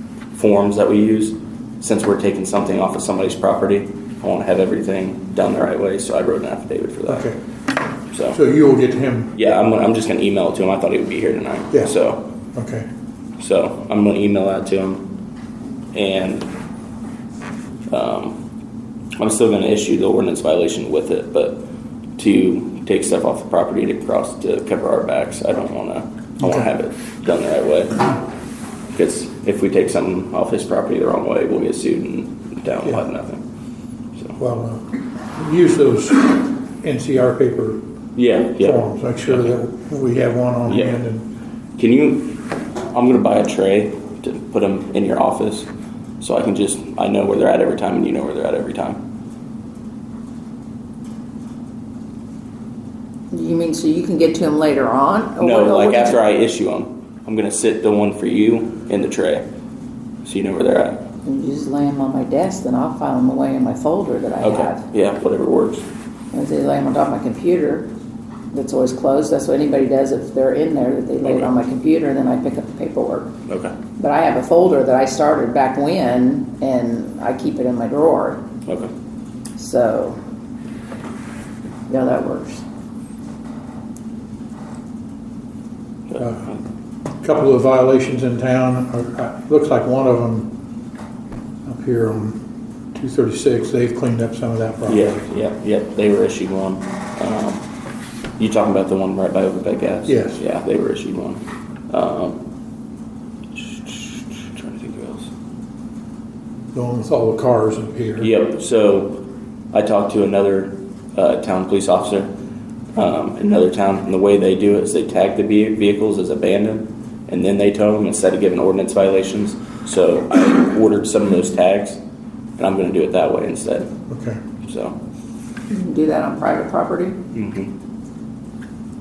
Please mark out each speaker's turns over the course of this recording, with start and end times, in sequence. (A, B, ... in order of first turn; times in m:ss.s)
0:00.3-0:07.3 A
0:07.1-0:07.4 B
0:08.1-0:08.4 A
0:08.3-0:09.3 B
0:09.3-0:12.3 A
0:12.5-0:12.9 B
0:13.4-0:15.1 A
0:15.9-0:16.5 A
0:17.9-0:18.4 A
0:19.2-0:21.7 A
0:22.2-0:28.2 A
0:26.4-0:26.7 B
0:28.9-0:33.4 A
0:34.4-0:37.8 B
0:38.2-0:39.5 A
0:38.6-0:41.3 B
0:40.7-0:41.0 A
0:41.8-0:45.7 A
0:46.2-0:49.0 A
0:53.3-0:56.2 C
0:55.4-0:59.5 A
1:00.2-1:01.0 A
1:01.2-1:04.8 C
1:04.4-1:05.8 A
1:06.3-1:07.9 C
1:08.5-1:13.3 C
1:13.5-1:13.8 A
1:14.0-1:18.4 C
1:19.6-1:20.2 C
1:21.9-1:22.6 C
1:26.2-1:26.5 B
1:27.2-1:30.6 B
1:31.7-1:32.4 B
1:32.9-1:35.1 B
1:34.9-1:37.6 A
1:38.4-1:42.4 A
1:40.1-1:40.4 B
1:43.6-1:45.3 A
1:46.7-1:48.3 B
1:48.2-1:52.3 A
1:53.0-2:02.0 A
2:02.6-2:03.9 A
2:04.1-2:04.4 B
2:04.6-2:05.0 A
2:05.7-2:07.2 C
2:07.3-2:07.7 A